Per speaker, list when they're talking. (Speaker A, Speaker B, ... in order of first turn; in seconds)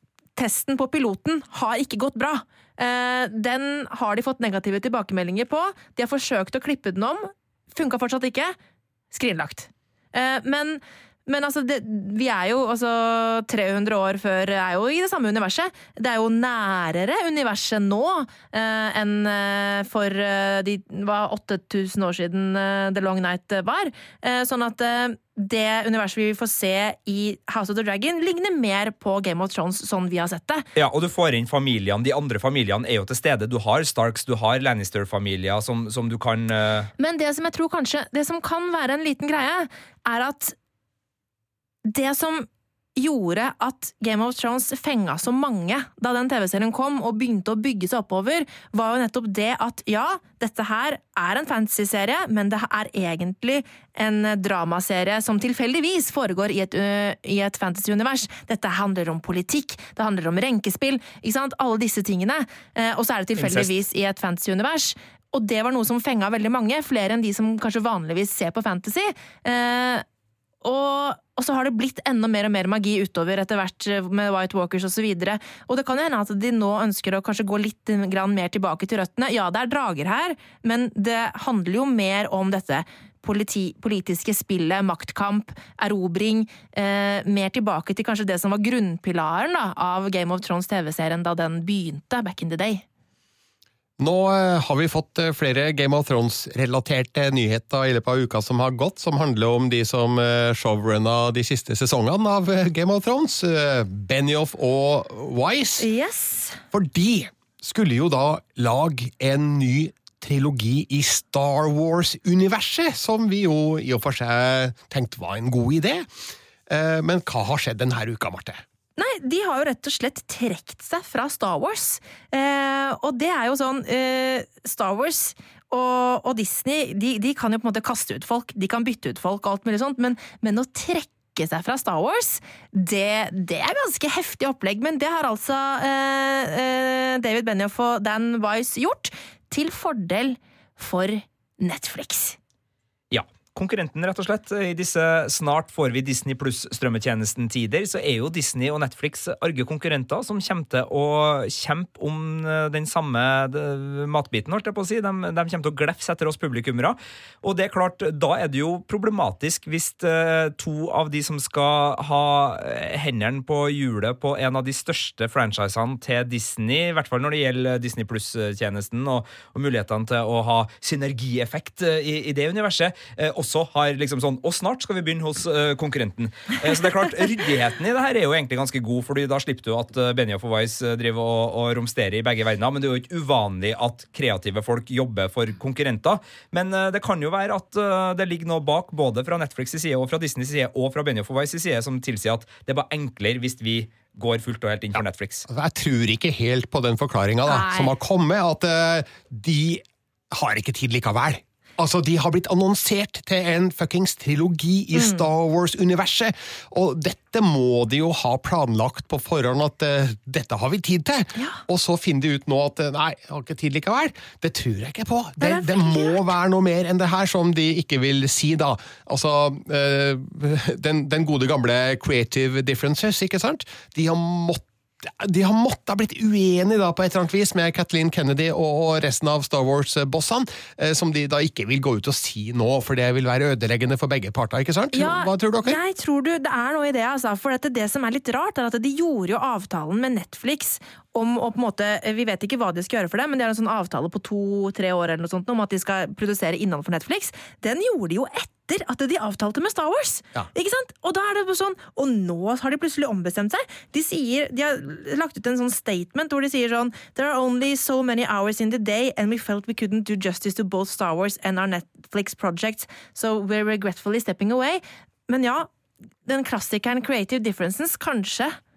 Speaker A: 0.4-8.6, 9.1-30.7, 37.0-40.5, 41.9-70.0, 70.6-92.8, 105.8-106.6, 119.0-142.4, 197.5-197.9, 204.9-205.2, 215.4-216.2, 234.9-265.7, 266.3-268.6
Speaker B: 30.8-36.9, 63.4-63.7, 143.1-195.4
Speaker C: 94.0-105.9, 106.7-116.1, 116.7-118.6, 195.5-235.8